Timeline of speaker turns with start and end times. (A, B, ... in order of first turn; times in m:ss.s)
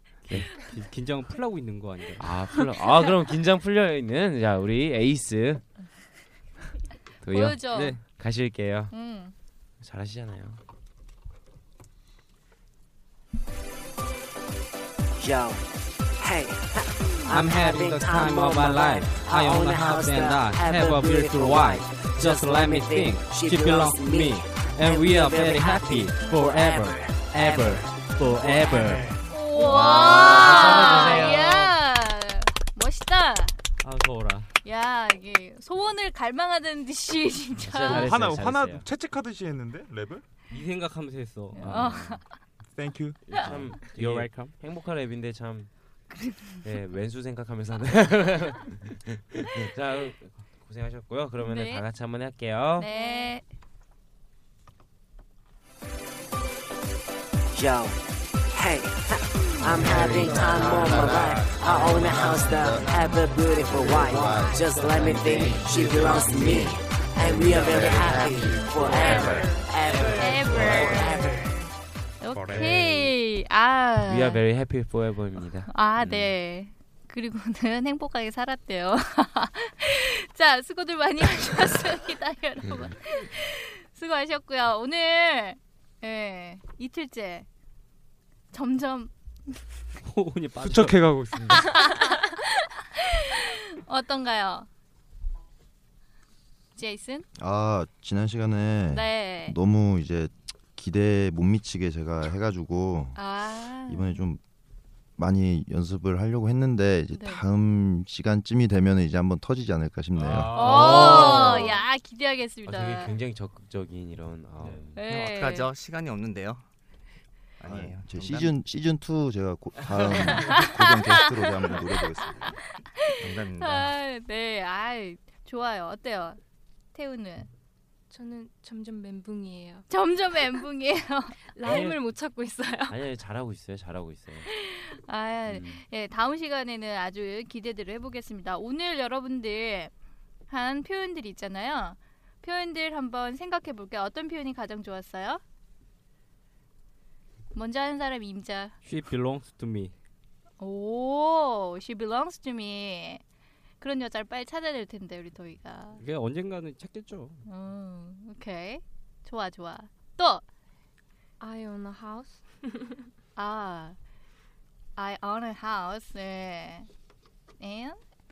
0:00.3-0:00.6 A
0:00.3-0:02.3 B
0:02.2-0:05.6 A
0:07.2-0:08.9 A
0:07.3-0:08.0 C
0:07.7-0:08.0 B
0:08.9-0:09.3 C
0:09.8-0:10.6 A
0:15.2-0:29.0 D
0:17.3-0:31.7 B
0:29.3-0:33.6 C
0:29.6-0:31.7 A
0:33.8-0:34.5 B
0:34.6-0:38.1 C
0:37.6-0:38.8 A
0:37.8-0:40.2 E
0:40.5-0:42.2 B
0:41.5-0:42.3 C
0:41.6-0:42.2 A
0:42.7-0:43.5 E
0:43.3-0:45.9 A
0:43.3-0:44.5 B
0:46.1-0:46.6 C
0:46.6-0:52.9 A
0:51.4-0:51.8 C
0:52.8-0:53.4 C
0:52.8-0:53.3 F
0:57.5-1:11.5 D
0:59.6-1:09.5 G
1:03.4-1:04.8 C
1:05.7-1:06.1 E
1:08.8-1:14.4 C
1:09.8-1:11.2 B
1:10.5-1:10.9 E
1:12.3-1:13.0 E
1:14.0-1:16.3 A
1:15.7-1:27.4 C
1:22.6-1:22.9 A
1:28.5-1:29.5 C
1:30.0-1:31.2 B
1:30.6-1:31.9 E
1:31.5-1:34.7 C
1:36.8-1:37.2 C
1:37.4-1:44.4 G
1:38.9-1:39.5 C
1:43.2-1:44.2 C
1:45.2-1:50.8 G
1:47.1-1:47.4 C
1:50.2-1:50.6 E
1:50.2-1:51.7 B
1:50.5-1:53.1 C
1:50.6-1:51.8 A
1:52.6-1:55.0 A
1:54.6-1:54.9 B
1:54.9-1:55.7 C
1:55.0-1:56.6 H
1:57.6-1:58.5 H
1:57.6-2:02.5 G
2:00.3-2:01.7 C
2:03.0-2:06.4 C
2:03.2-2:03.9 H
2:06.9-2:07.5 C
2:08.1-2:09.9 F
2:09.9-2:11.4 C
2:11.5-2:13.0 F
2:11.6-2:12.1 A
2:12.9-2:14.5 A
2:14.5-2:19.9 C
2:15.5-2:15.8 A
2:20.5-2:25.4 C
2:27.5-2:28.7 C
2:28.8-2:29.9 B
2:30.6-2:33.2 C
2:33.8-2:36.0 C
2:36.0-2:37.4 B
2:37.4-2:40.4 C
2:41.4-2:42.7 F
2:43.4-2:44.0 C
2:45.0-2:46.9 C
2:47.6-2:48.0 C